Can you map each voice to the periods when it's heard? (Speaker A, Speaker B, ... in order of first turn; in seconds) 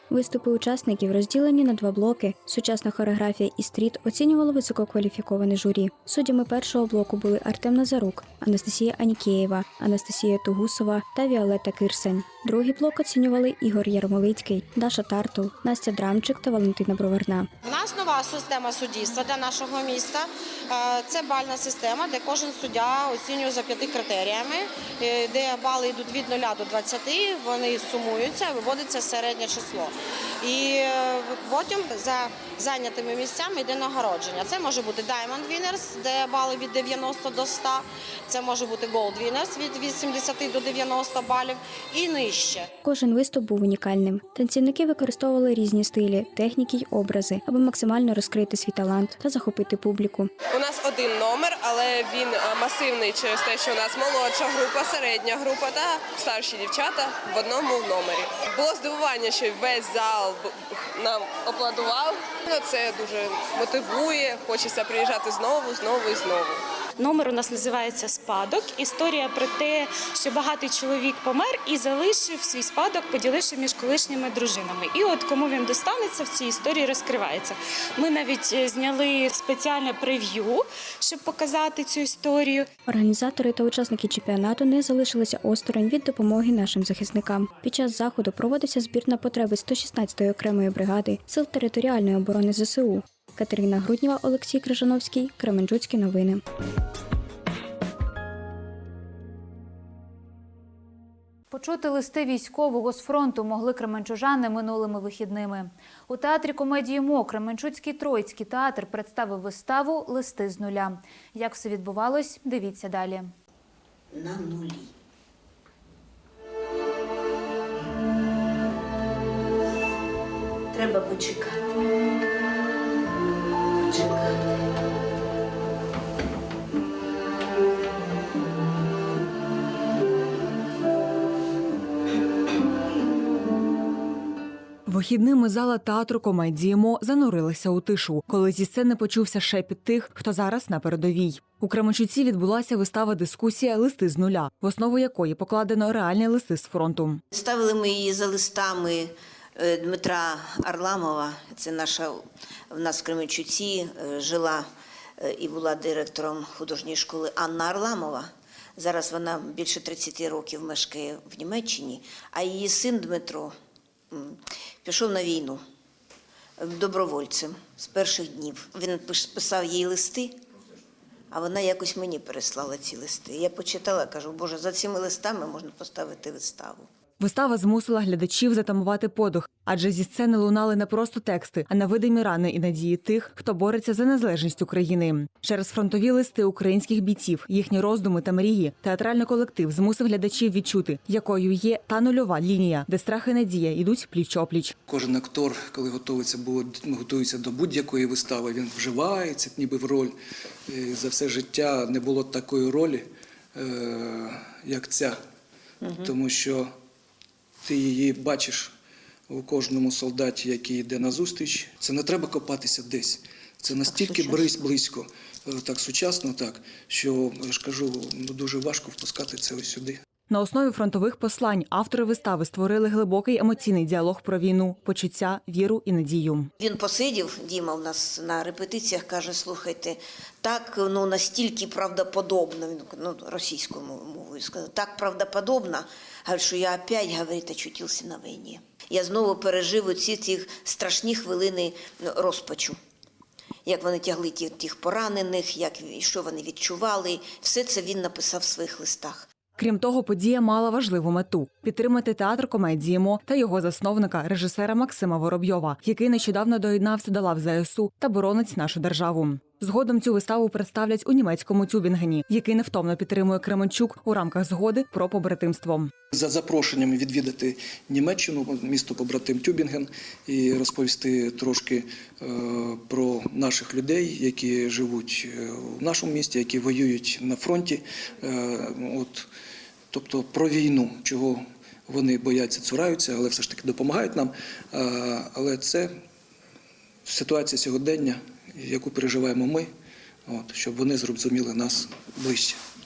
Speaker A: 0.1-17.5, 42.8-50.3, 82.9-96.4
Speaker B: 17.7-42.7
Speaker C: 50.7-51.2, 51.8-56.9
Speaker D: 67.0-73.6, 74.1-77.3, 78.2-80.2, 81.1-82.6
Speaker E: 101.5-113.3
Speaker F: 114.1-114.9, 120.7-121.6, 123.8-124.5, 147.3-154.7, 155.2-163.5, 164.1-165.6, 166.6-170.4, 171.3-176.9, 213.9-214.5, 226.6-242.8, 243.7-249.3
Speaker G: 134.9-147.2, 177.2-194.8, 220.3-226.5, 249.6-265.9
Speaker H: 194.9-200.2, 200.7-205.2, 205.9-206.7, 207.6-208.7, 209.3-220.0, 266.1-279.3, 279.9-285.9, 287.1-289.7, 290.3-292.6